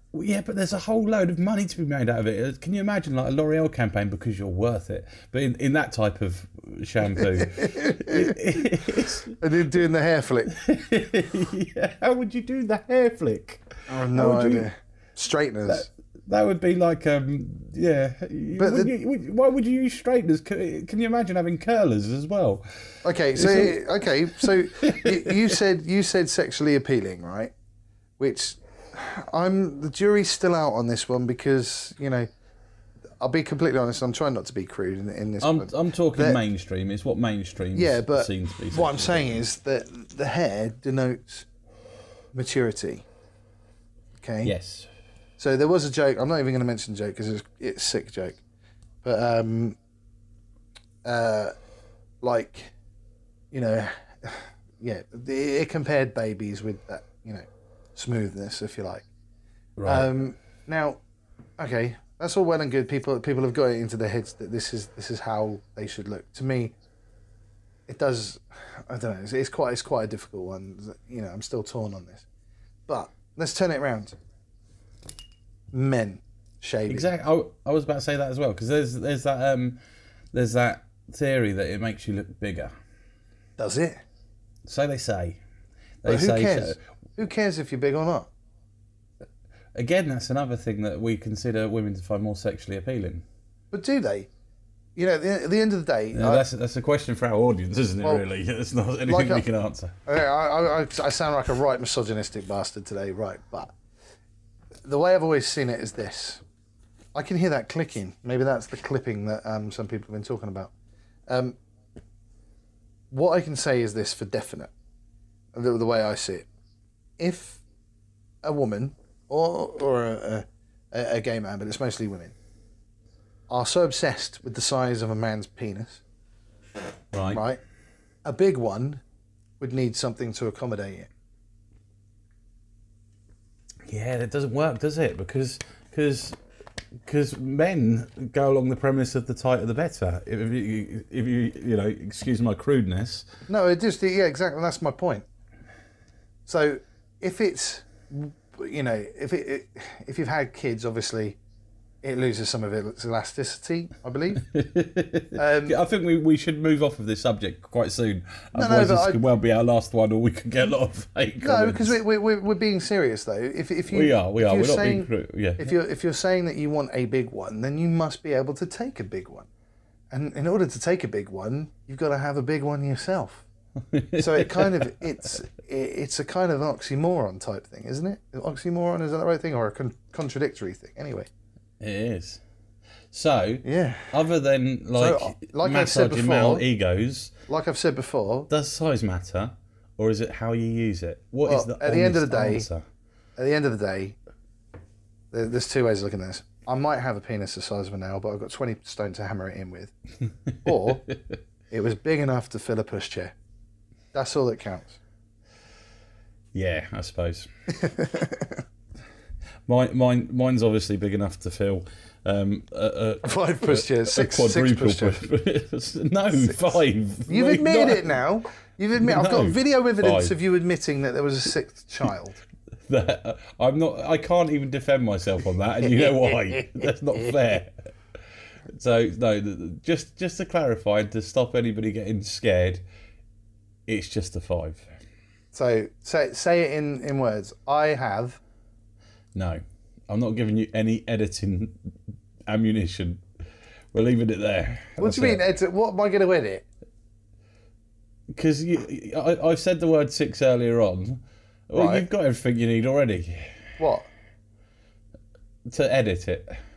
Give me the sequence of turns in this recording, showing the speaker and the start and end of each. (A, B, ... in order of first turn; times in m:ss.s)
0:00.1-0:09.4 A
0:07.2-0:08.8 B
0:09.4-0:10.6 B
0:10.5-0:14.7 A
0:13.9-0:15.9 B
0:15.7-0:25.5 A
0:18.6-0:18.9 B
0:23.0-0:27.5 B
0:28.2-0:32.3 B
0:33.2-0:36.4 B
0:35.4-0:39.4 A
0:37.7-0:41.5 B
0:42.3-0:43.1 B
0:44.2-0:44.5 B
0:44.4-0:44.9 A
0:45.4-0:48.4 B
0:49.0-0:49.8 B
0:51.0-0:51.5 B
0:52.2-0:52.7 B
0:53.5-0:59.1 B
0:59.8-1:00.1 A
0:59.8-1:01.0 B
1:01.6-1:06.7 B
1:07.9-1:12.2 B
1:12.9-1:14.1 B
1:15.7-1:17.1 B
1:16.9-1:19.8 A
1:20.3-1:22.7 A
1:23.6-1:24.0 B
1:24.6-1:25.4 A
1:26.0-1:26.8 A
1:26.0-1:28.3 B
1:29.7-1:33.2 A
1:33.7-1:34.3 B
1:35.0-1:36.4 B
1:36.1-1:40.0 A
1:39.0-1:39.4 B
1:40.0-1:43.7 B
1:44.8-1:46.4 B
1:47.1-1:50.7 B
1:51.3-1:51.6 B
1:53.1-1:54.7 B
1:55.5-1:56.5 B
1:57.2-1:57.6 B
1:58.4-2:02.3 B
2:03.5-2:06.0 B
2:07.1-2:07.4 A
2:07.3-2:07.6 B
2:08.2-2:09.0 B
2:09.6-2:11.1 B
2:13.9-2:16.4 A
2:17.0-2:23.3 A
2:23.5-2:25.2 B
2:26.5-2:31.4 B
2:32.0-2:34.4 B
2:34.4-2:42.0 A
2:35.4-2:35.8 B
2:38.5-2:39.2 B
2:41.4-2:49.5 B
2:43.9-2:45.7 A
2:50.1-2:53.5 B
2:53.9-2:54.9 A
2:54.2-3:01.3 B
3:01.8-3:02.4 A
3:03.1-3:07.3 A
3:03.6-3:04.1 B
3:05.0-3:06.6 B
3:07.5-3:08.5 B
3:08.5-3:12.8 A
3:11.4-3:12.7 B
3:13.4-3:14.2 B
3:15.3-3:19.9 B
3:20.6-3:21.0 B
3:20.7-3:21.3 A
3:21.7-3:23.3 B
3:24.1-3:25.0 B
3:26.5-3:27.5 A
3:27.7-3:28.6 B
3:29.7-3:38.2 A
3:33.2-3:35.2 B
3:37.3-3:42.4 B
3:39.0-3:40.3 A
3:42.9-3:47.8 A
3:48.7-3:52.8 A
3:53.9-3:54.9 A
3:55.5-3:58.4 B
3:59.3-4:01.7 A
4:02.5-4:03.2 A
4:03.9-4:05.4 A
4:05.0-4:06.6 B
4:08.3-4:13.7 A
4:11.8-4:12.0 B
4:13.8-4:14.1 B
4:15.6-4:16.6 A